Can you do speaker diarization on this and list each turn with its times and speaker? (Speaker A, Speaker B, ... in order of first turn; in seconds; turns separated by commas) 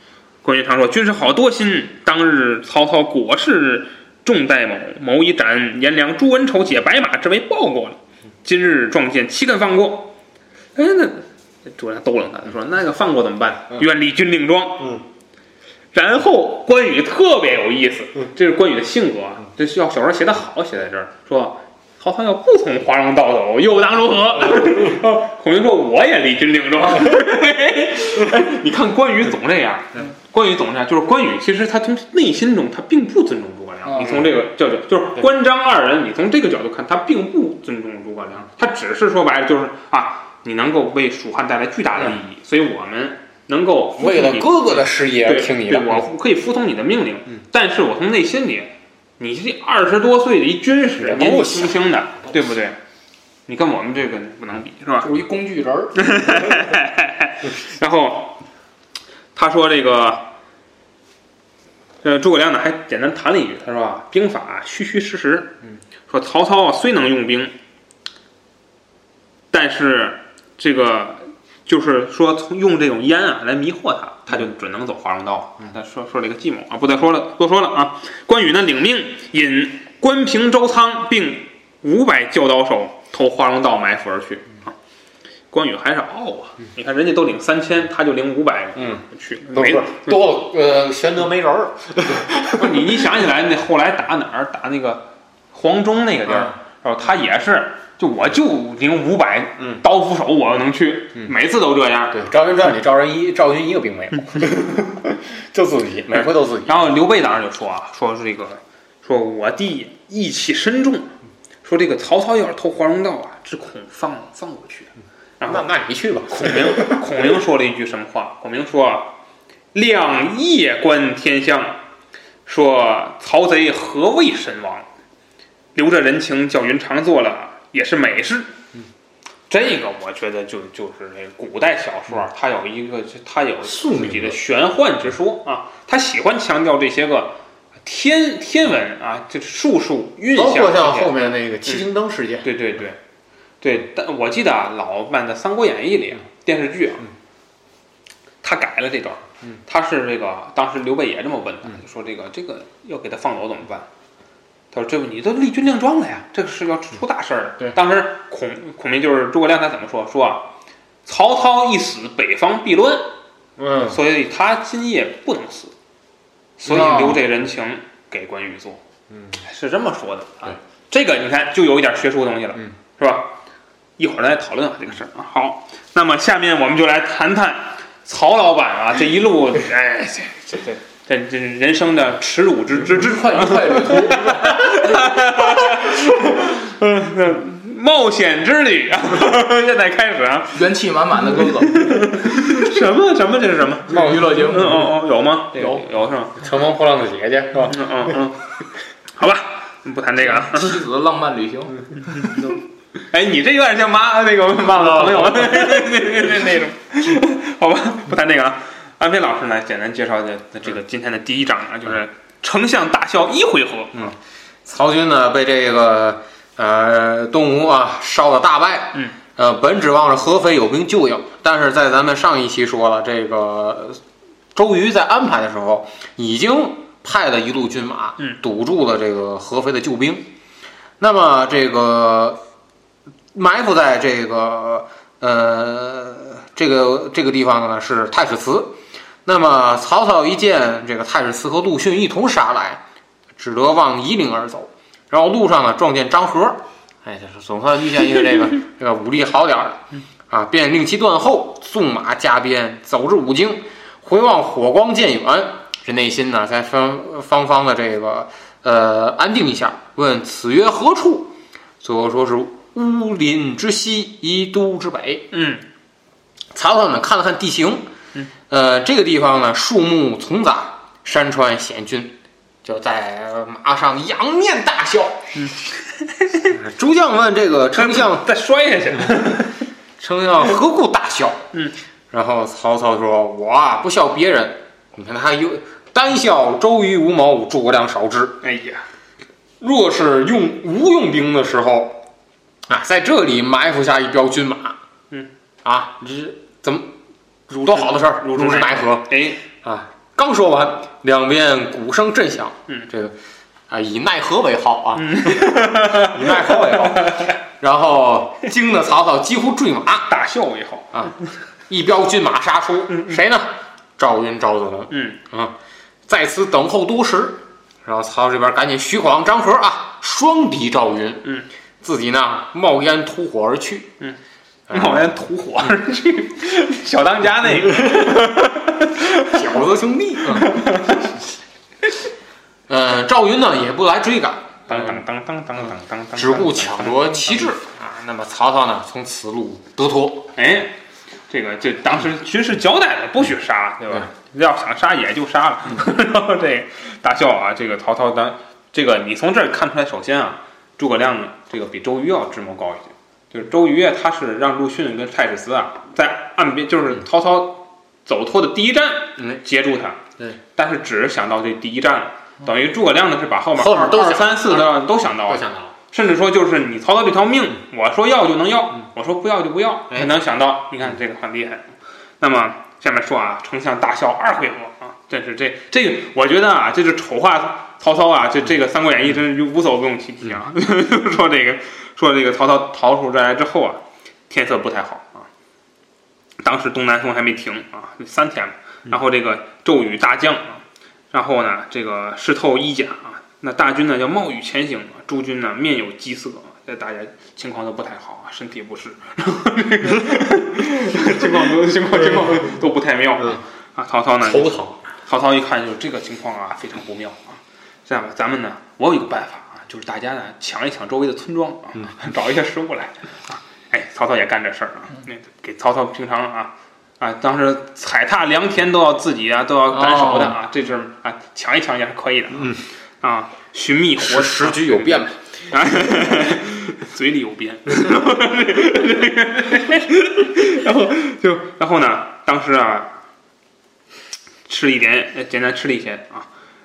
Speaker A: 0.4-10.1, Speaker A: 10.8-15.0, Speaker A: 15.9-52.8, Speaker B: 33.9-34.2, Speaker C: 44.0-46.1, Speaker C: 51.0-51.8, Speaker A: 53.5-55.1, Speaker B: 55.0-56.2, Speaker A: 56.0-58.4, Speaker A: 59.4-60.2, Speaker A: 62.0-65.6, Speaker A: 66.1-67.5, Speaker A: 69.5-84.7, Speaker A: 85.5-90.3, Speaker C: 88.8-92.9, Speaker A: 92.4-102.2, Speaker C: 96.3-96.5, Speaker C: 102.1-106.9, Speaker A: 106.1-111.1, Speaker A: 111.6-115.7, Speaker C: 115.5-117.1, Speaker A: 116.3-119.2, Speaker A: 119.7-121.8, Speaker A: 122.5-124.9, Speaker A: 125.8-128.5, Speaker A: 129.5-141.1, Speaker C: 133.6-134.4, Speaker C: 140.3-142.5, Speaker A: 142.4-143.0, Speaker A: 143.6-147.1, Speaker A: 148.4-153.9, Speaker A: 154.7-160.5, Speaker A: 161.1-163.1, Speaker C: 163.6-164.0, Speaker A: 163.9-165.7, Speaker A: 166.6-168.8, Speaker C: 166.7-167.2, Speaker B: 166.7-167.2, Speaker A: 169.4-173.4, Speaker A: 174.0-196.4, Speaker B: 182.9-185.7, Speaker B: 190.5-191.9, Speaker C: 193.9-194.8, Speaker B: 193.9-194.8, Speaker C: 195.5-195.8, Speaker C: 196.4-197.9, Speaker A: 197.7-200.8, Speaker B: 200.2-202.6, Speaker A: 203.1-214.1, Speaker C: 204.8-205.9, Speaker C: 213.9-224.0, Speaker C: 224.6-230.3, Speaker C: 231.0-232.4, Speaker C: 233.3-242.8, Speaker C: 243.4-265.3, Speaker A: 265.3-265.6, Speaker C: 266.5-267.9, Speaker C: 268.5-275.3, Speaker A: 275.4-276.5, Speaker C: 276.5-278.3, Speaker A: 277.7-279.6, Speaker C: 280.0-281.4, Speaker C: 282.1-288.4, Speaker A: 288.4-288.8, Speaker C: 289.6-292.0, Speaker C: 292.7-294.8, Speaker C: 295.6-296.9, Speaker C: 297.5-303.1, Speaker A: 297.7-299.4, Speaker C: 303.7-310.1, Speaker A: 305.0-307.3, Speaker A: 310.1-311.1, Speaker C: 311.7-315.6, Speaker A: 312.9-313.2, Speaker A: 314.9-315.2, Speaker C: 316.1-321.3, Speaker C: 321.8-323.9, Speaker C: 324.7-325.1, Speaker A: 324.7-329.4, Speaker C: 329.2-330.7, Speaker A: 330.3-331.1, Speaker C: 332.7-335.0, Speaker A: 334.7-337.6, Speaker C: 336.1-340.3, Speaker A: 340.4-340.7, Speaker A: 341.3-360.0, Speaker A: 360.6-385.3, Speaker C: 363.6-365.7, Speaker A: 386.4-432.9, Speaker C: 401.1-402.4, Speaker C: 404.2-404.8, Speaker C: 419.9-420.3, Speaker C: 422.4-422.6, Speaker C: 424.0-425.1, Speaker A: 434.5-436.3